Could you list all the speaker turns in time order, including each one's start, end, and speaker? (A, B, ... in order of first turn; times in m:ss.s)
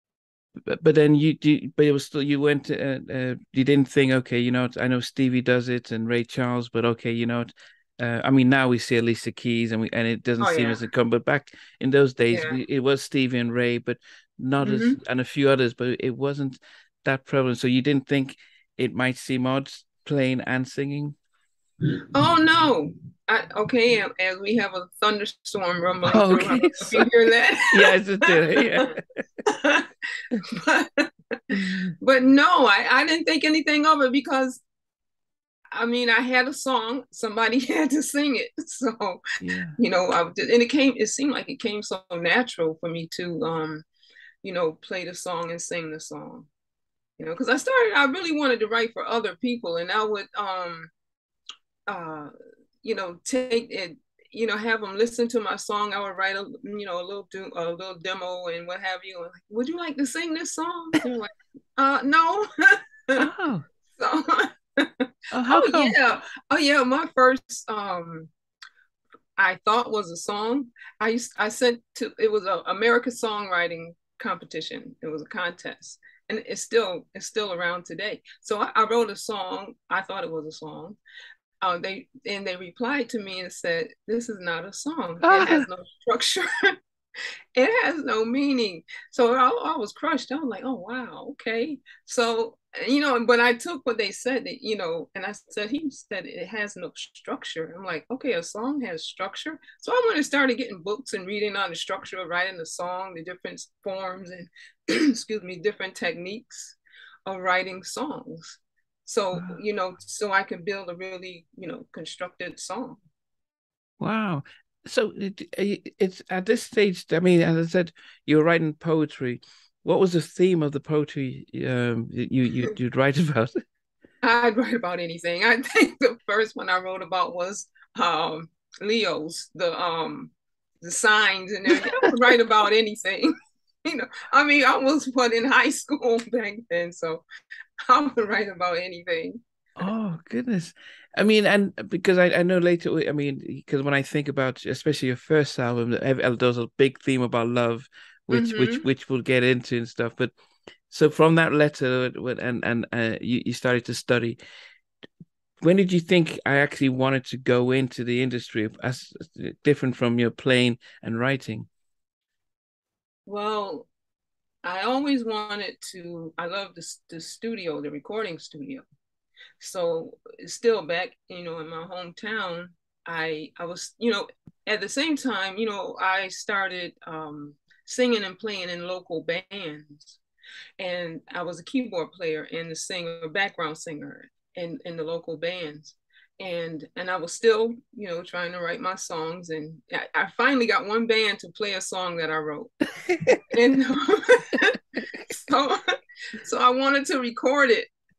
0:00.7-0:21.2 A
0:10.4-0:10.8 B
0:12.3-0:12.6 B
0:14.6-0:15.0 B
0:22.1-0:28.9 B
0:26.1-0:27.1 A
0:27.7-0:28.9 A
0:29.5-0:29.9 B
0:30.5-0:31.1 B
0:31.5-0:31.9 A
0:32.0-0:34.6 B
0:35.7-0:39.2 B
0:39.4-0:39.8 A
0:39.8-0:43.8 B
0:44.4-0:46.5 B
0:47.2-0:50.9 B
0:51.9-0:52.3 B
0:52.8-1:03.2 B
1:03.2-1:03.7 A
1:04.0-1:08.3 B
1:05.3-1:06.0 A
1:09.4-1:21.0 B
1:21.6-1:26.5 B
1:25.2-1:25.7 A
1:27.6-1:53.0 B
1:54.0-2:03.5 A
2:04.2-2:13.3 B
2:13.8-2:17.2 B
2:17.9-2:19.4 B
2:19.8-2:30.3 A
2:28.3-2:28.9 B
2:30.9-2:34.4 A
2:35.6-2:41.7 A
2:43.3-2:43.9 B
2:44.6-2:48.8 B
2:49.6-3:00.2 B
3:00.8-3:12.7 B
3:13.5-3:14.8 B
3:15.3-3:15.8 B
3:16.4-3:17.9 B